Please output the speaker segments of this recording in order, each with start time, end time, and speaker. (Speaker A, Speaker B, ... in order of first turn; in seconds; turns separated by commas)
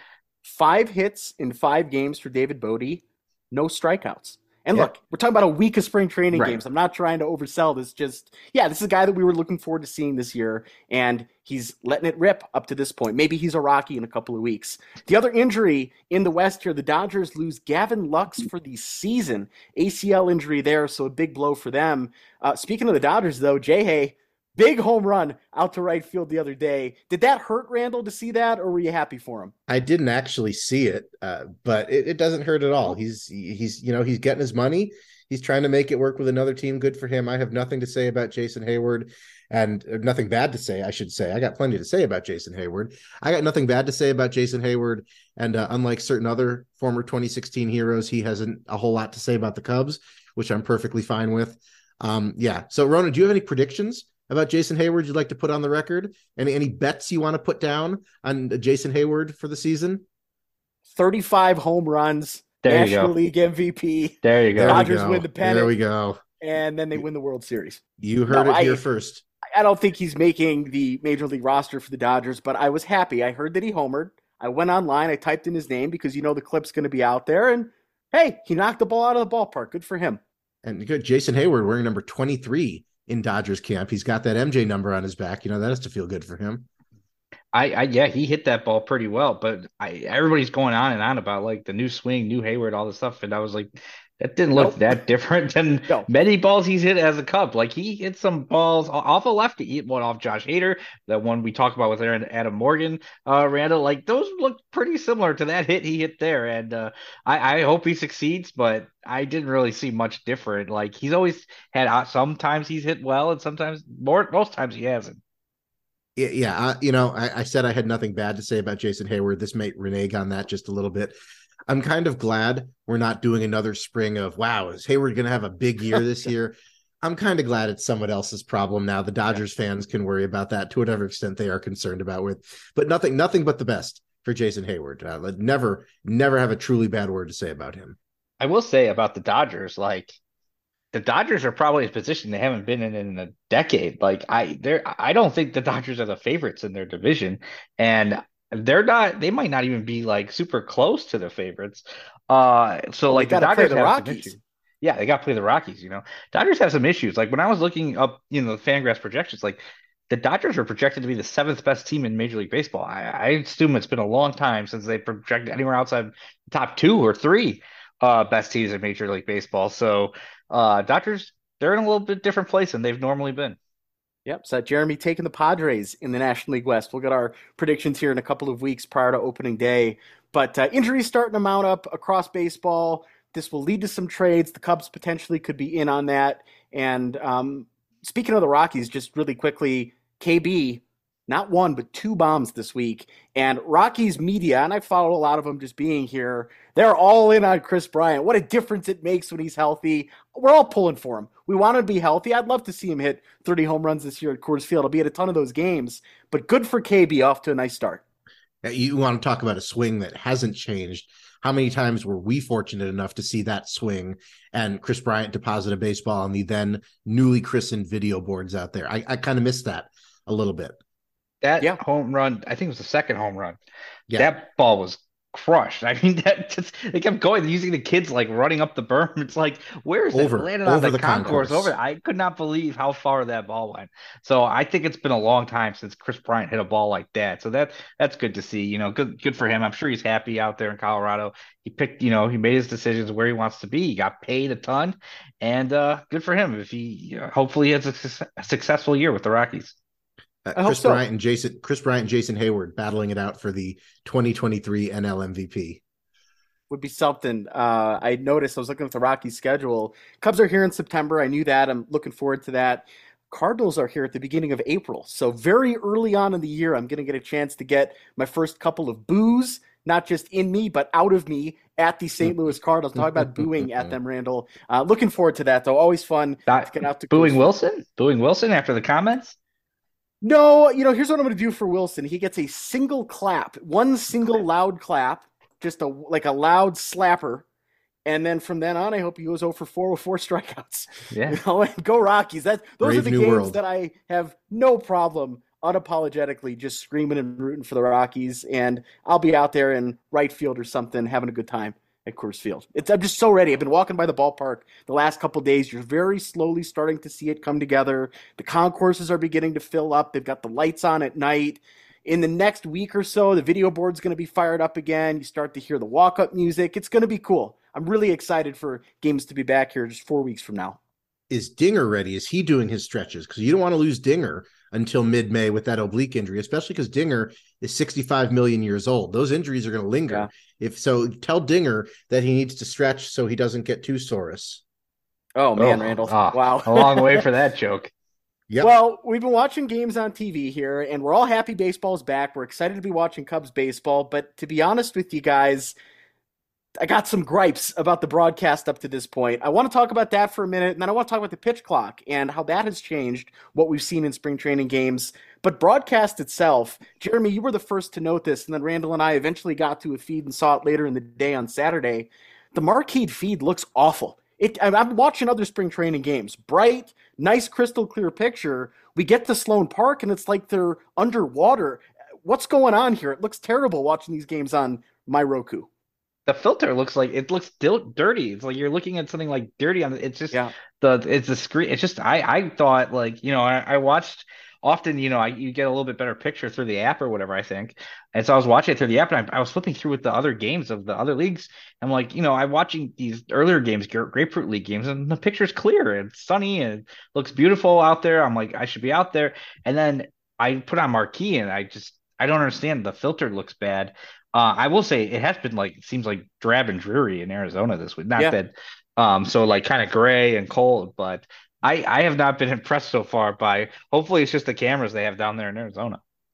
Speaker A: 0.4-29.5, Speaker B: 6.3-6.6, Speaker C: 29.7-60.0, Speaker A: 60.9-65.7, Speaker B: 62.6-63.1, Speaker B: 64.2-64.8, Speaker C: 64.5-66.2, Speaker A: 66.4-68.8, Speaker C: 68.0-69.2, Speaker A: 69.5-80.2, Speaker C: 80.6-86.7, Speaker B: 87.5-115.2, Speaker A: 94.5-95.0, Speaker C: 116.2-121.1, Speaker C: 121.7-138.0, Speaker B: 138.4-140.2, Speaker B: 140.9-173.6, Speaker A: 153.1-154.4, Speaker A: 174.2-208.0, Speaker C: 208.6-220.8, Speaker B: 221.4-223.6, Speaker B: 224.1-249.7, Speaker C: 230.1-231.7, Speaker C: 250.4-255.8, Speaker A: 250.6-251.0, Speaker A: 256.7-277.4, Speaker B: 276.5-279.4, Speaker A: 280.2-287.4, Speaker A: 288.1-320.8, Speaker B: 291.1-291.4, Speaker C: 292.8-293.6, Speaker C: 321.3-334.6, Speaker A: 335.4-337.2, Speaker B: 335.6-337.9, Speaker A: 338.6-345.8, Speaker A: 346.8-375.7, Speaker B: 376.3-416.0